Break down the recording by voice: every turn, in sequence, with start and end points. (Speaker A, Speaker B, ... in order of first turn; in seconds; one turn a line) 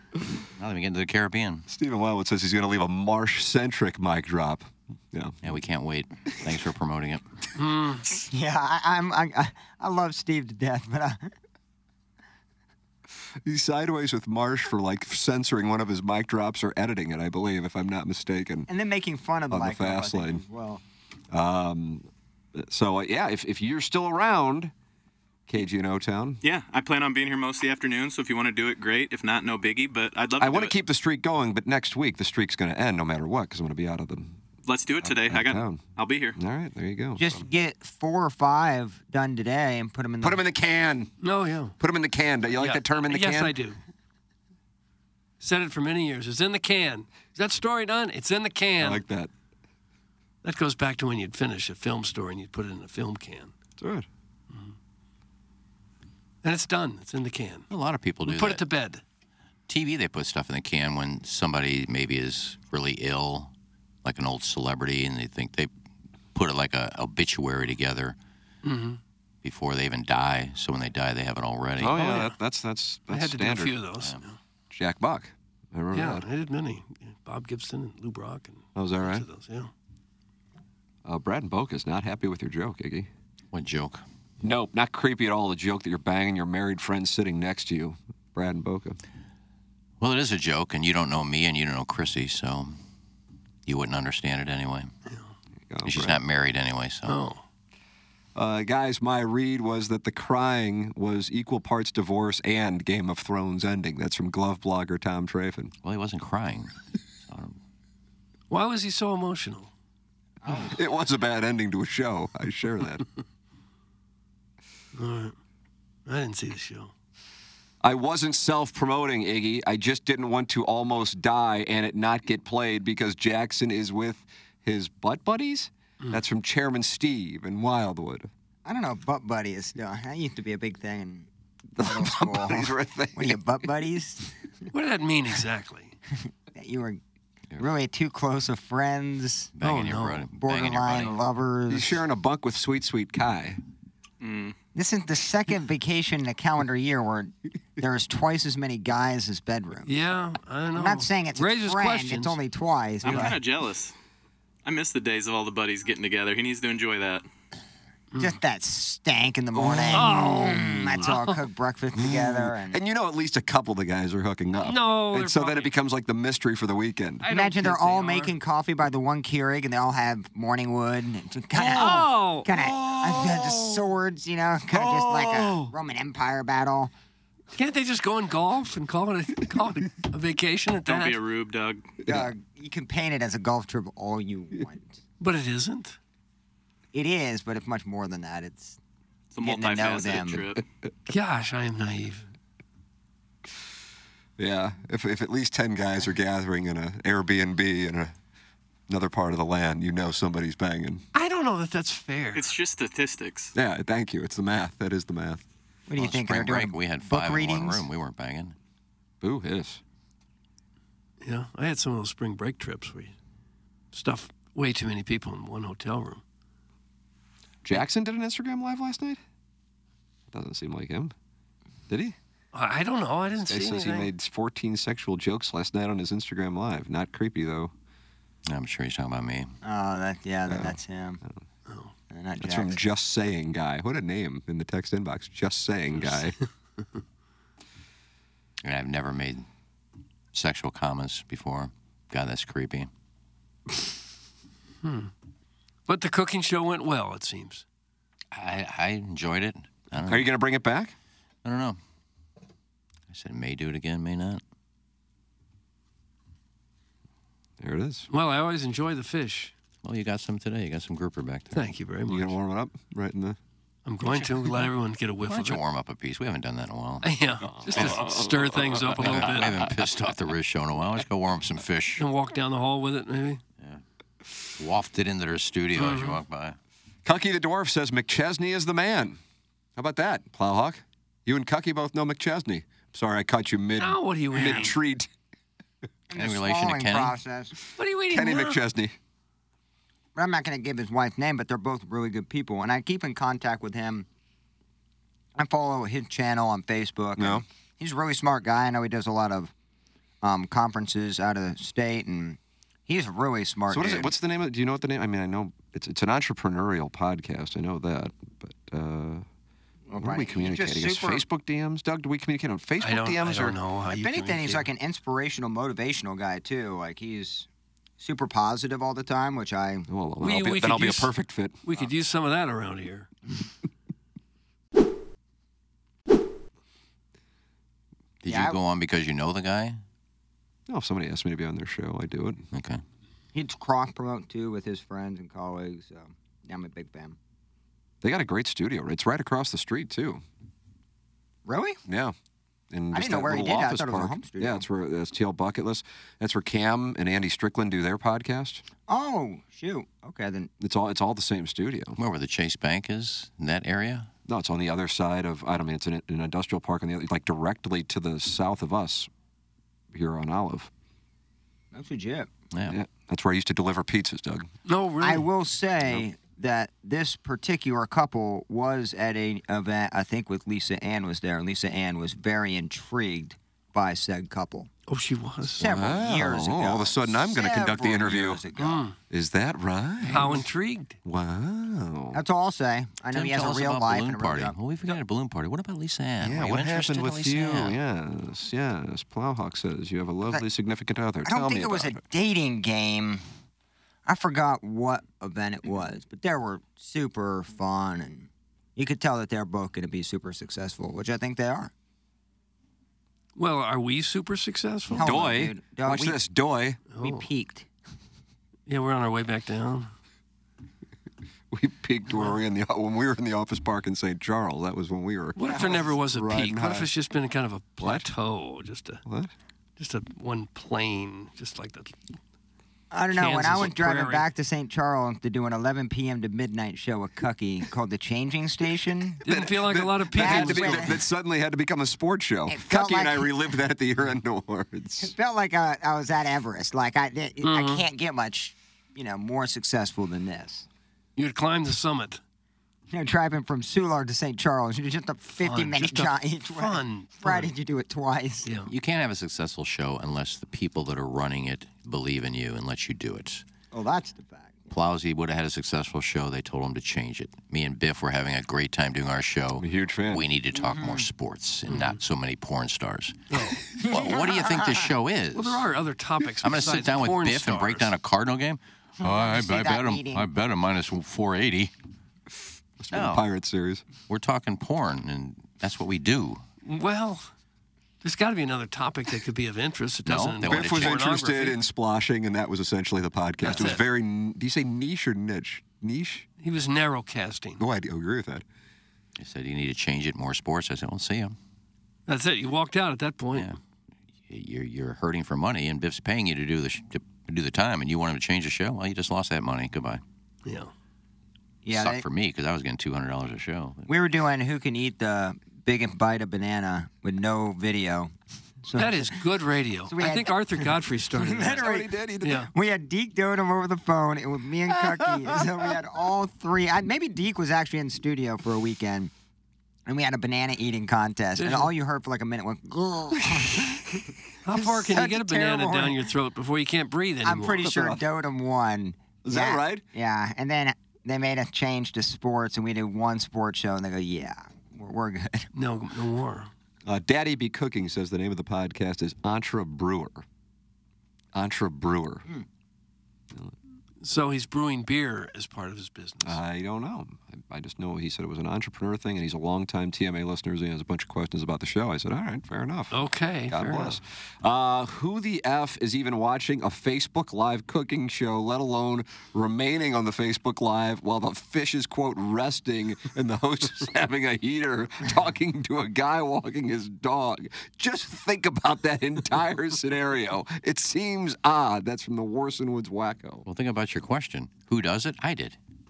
Speaker A: 0.6-1.7
Speaker B: 1.7-5.4
Speaker A: 5.4-7.2
Speaker C: 7.6-8.1
Speaker D: 8.2-11.2
Speaker B: 13.4-18.7
Speaker D: 18.7-20.8
Speaker B: 19.5-20.4
Speaker B: 21.3-24.7
Speaker B: 25.5-26.4
Speaker E: 26.4-30.7
Speaker B: 30.4-34.4
Speaker E: 34.7-36.4
Speaker B: 35.0-35.9
Speaker B: 36.4-37.4
Speaker D: 37.2-40.4
Speaker B: 40.2-41.1
Speaker C: 41.2-41.8
Speaker B: 41.8-43.5
Speaker C: 42.6-43.8
Speaker C: 45.4-49.0
Speaker B: 48.8-49.3
Speaker C: 50.4-53.5
Speaker B: 53.8-54.1
Speaker C: 56.4-57.7
Speaker A: 57.7-58.6
Speaker C: 58.3-59.0
Speaker A: 59.7-63.5
Speaker A: 64.0-65.7
Speaker A: 66.3-68.2
Speaker C: 68.6-69.0
Speaker A: 69.4-72.0
Speaker B: 71.8-73.8
Speaker C: 72.0-72.3
Speaker C: 73.1-74.4
Speaker B: 74.7-76.3
Speaker C: 75.9-79.7
Speaker B: 78.8-79.3
Speaker B: 81.0-83.1
Speaker A: 83.5-84.0
Speaker B: 84.4-89.0
Speaker A: 90.0-92.8
Speaker A: 93.7-94.9
Speaker B: 95.7-96.2
Speaker A: 95.8-97.2
Speaker C: 97.1-97.4
Speaker B: 98.3-105.7
Speaker A: 105.8-107.6
Speaker C: 108.5-109.7
Speaker D: 110.5-110.8
Speaker B: 110.7-113.1
Speaker C: 115.0-115.3
Speaker C: 116.1-116.9
Speaker B: 117.8-128.3
Speaker D: 128.7-131.3
Speaker B: 131.8-133.4
Speaker D: 131.8-134.3
Speaker C: 134.7-136.0
Speaker D: 136.5-137.0
Speaker D: 137.6-139.5
Speaker A: 139.6-141.2
Speaker C: 139.6-140.2
Speaker D: 140.4-142.0
Speaker B: 141.7-143.6
Speaker E: 144.2-144.6
Speaker D: 144.8-149.9
Speaker C: 149.9-152.4
Speaker D: 150.7-153.4
Speaker E: 153.0-153.9
Speaker C: 153.1-153.3
Speaker E: 154.7-157.2
Speaker D: 158.2-162.8
Speaker B: 159.5-160.2
Speaker C: 159.9-161.4
Speaker B: 161.9-167.3
Speaker C: 164.6-165.7
Speaker C: 167.2-168.4
Speaker D: 167.3-176.9
Speaker C: 171.5-172.5
Speaker B: 172.5-173.9
Speaker B: 174.7-175.7
Speaker C: 177.5-181.2
Speaker E: 180.9-182.0
Speaker B: 182.1-182.3
Speaker D: 182.1-185.0
Speaker C: 185.2-186.0
Speaker D: 186.9-188.8
Speaker E: 189.3-190.6
Speaker D: 189.4-190.4
Speaker C: 191.1-192.3
Speaker B: 194.4-198.2
Speaker B: 198.9-201.0
Speaker C: 201.1-202.5
Speaker E: 202.3-203.5
Speaker B: 203.6-205.4
Speaker D: 205.9-207.8
Speaker A: 206.0-208.6
Speaker B: 209.2-209.8
Speaker C: 211.2-213.2
Speaker C: 213.9-216.2
Speaker B: 217.6-219.2
Speaker B: 220.3-221.1
Speaker B: 221.9-222.2
Speaker C: 222.5-224.1
Speaker B: 223.5-227.7
Speaker A: 228.5-229.6
Speaker D: 229.6-231.2
Speaker B: 230.5-231.3
Speaker D: 232.1-232.8
Speaker B: 232.4-236.4
Speaker A: 238.6-239.4
Speaker A: 240.3-242.9
Speaker C: 244.8-245.1
Speaker C: 245.9-247.6
Speaker A: 248.3-250.3
Speaker B: 250.1-250.9
Speaker A: 251.4-251.8
Speaker A: 253.1-254.4
Speaker B: 257.6-258.1
Speaker C: 258.1-259.5
Speaker A: 259.8-261.6
Speaker C: 261.5-262.3
Speaker B: 262.1-263.4
Speaker C: 263.9-265.6
Speaker A: 265.2-267.1
Speaker C: 267.0-269.5
Speaker B: 267.6-269.6
Speaker A: 267.7-268.2
Speaker A: 269.0-272.0
Speaker C: 272.0-273.4
Speaker A: 274.6-276.6
Speaker C: 275.8-276.2
Speaker B: 277.1-279.2
Speaker B: 279.8-285.1
Speaker C: 283.8-284.8
Speaker D: 286.1-287.6
Speaker A: 286.1-287.2
Speaker C: 287.8-288.6
Speaker B: 288.1-289.0
Speaker D: 290.1-294.1
Speaker D: 295.4-299.5
Speaker B: 297.2-297.4
Speaker D: 300.2-304.1
Speaker B: 303.7-309.2
Speaker D: 309.9-311.2
Speaker B: 309.9-313.6
Speaker C: 312.8-314.7
Speaker D: 313.9-317.5
Speaker D: 318.0-319.9
Speaker B: 319.9-321.6
Speaker C: 320.2-321.1
Speaker C: 321.6-323.1
Speaker A: 328.2-329.8
Speaker D: 328.3-328.6
Speaker B: 330.7-332.4
Speaker A: 332.5-332.8
Speaker D: 333.3-337.2
Speaker B: 338.0-340.2
Speaker D: 341.5-341.8
Speaker B: 341.9-342.1
Speaker B: 342.7-348.6
Speaker D: 342.9-344.6
Speaker D: 348.9-350.5
Speaker B: 350.6-352.0
Speaker A: 352.0-354.1
Speaker B: 354.3-359.1
Speaker B: 359.9-360.7
Speaker D: 361.7-362.3
Speaker B: 362.7-364.5
Speaker C: 364.7-365.3
Speaker D: 365.0-374.7
Speaker C: 374.9-375.6
Speaker D: 375.6-378.9
Speaker B: 375.6-378.4
Speaker C: 378.6-379.0
Speaker B: 379.1-380.4
Speaker C: 380.0-381.0
Speaker B: 381.1-382.2
Speaker D: 382.1-384.6
Speaker A: 383.1-387.8
Speaker B: 386.2-392.0
Speaker D: 391.2-393.2
Speaker D: 394.1-401.7
Speaker C: 403.4-405.1
Speaker D: 404.9-406.2
Speaker B: 405.0-406.8
Speaker C: 406.9-407.3
Speaker D: 407.0-407.7
Speaker C: 408.7-409.9
Speaker B: 411.5-416.9
Speaker C: 415.4-419.0
Speaker D: 415.4-415.9
Speaker B: 417.8-418.1
Speaker B: 419.1-419.3
Speaker C: 419.8-422.0
Speaker D: 422.9-429.2
Speaker C: 423.1-424.3
Speaker C: 429.2-430.9
Speaker B: 429.3-435.1
Speaker D: 430.1-431.0
Speaker D: 432.5-433.3
Speaker D: 435.0-440.7
Speaker C: 437.4-437.9
Speaker C: 441.2-442.2
Speaker D: 442.9-448.5
Speaker C: 445.4-447.5
Speaker C: 448.4-448.7
Speaker A: 448.7-453.4
Speaker D: 453.7-454.7
Speaker A: 454.7-465.7
Speaker B: 459.6-460.3
Speaker D: 460.6-461.1
Speaker C: 461.7-462.0
Speaker C: 463.3-463.6
Speaker D: 463.8-464.9
Speaker C: 465.3-467.9
Speaker A: 466.4-471.7
Speaker D: 469.0-470.3
Speaker B: 472.8-473.8
Speaker A: 472.9-473.2
Speaker A: 474.1-476.4
Speaker C: 476.6-477.3
Speaker C: 478.0-481.6
Speaker A: 480.1-481.0
Speaker B: 480.4-486.3
Speaker C: 483.4-483.8
Speaker C: 486.4-487.6
Speaker B: 487.6-488.4
Speaker A: 489.2-491.4
Speaker C: 492.1-493.5
Speaker A: 494.3-500.0
Speaker C: 500.4-500.7
Speaker D: 501.6-502.0
Speaker A: 501.7-503.9
Speaker D: 503.9-508.1
Speaker D: 508.6-509.2
Speaker C: 508.8-511.6
Speaker D: 509.9-511.9
Speaker B: 511.4-512.5
Speaker C: 512.2-512.5
Speaker D: 512.5-519.1
Speaker B: 515.0-515.5
Speaker D: 519.9-526.1
Speaker C: 521.4-521.7
Speaker C: 524.5-527.6
Speaker D: 527.2-535.5
Speaker B: 527.6-528.0
Speaker B: 529.2-529.8
Speaker C: 535.5-536.5
Speaker B: 536.9-540.2
Speaker B: 541.3-542.3
Speaker C: 544.0-546.4
Speaker B: 546.2-573.5
Speaker C: 552.9-554.0
Speaker A: 573.5-575.6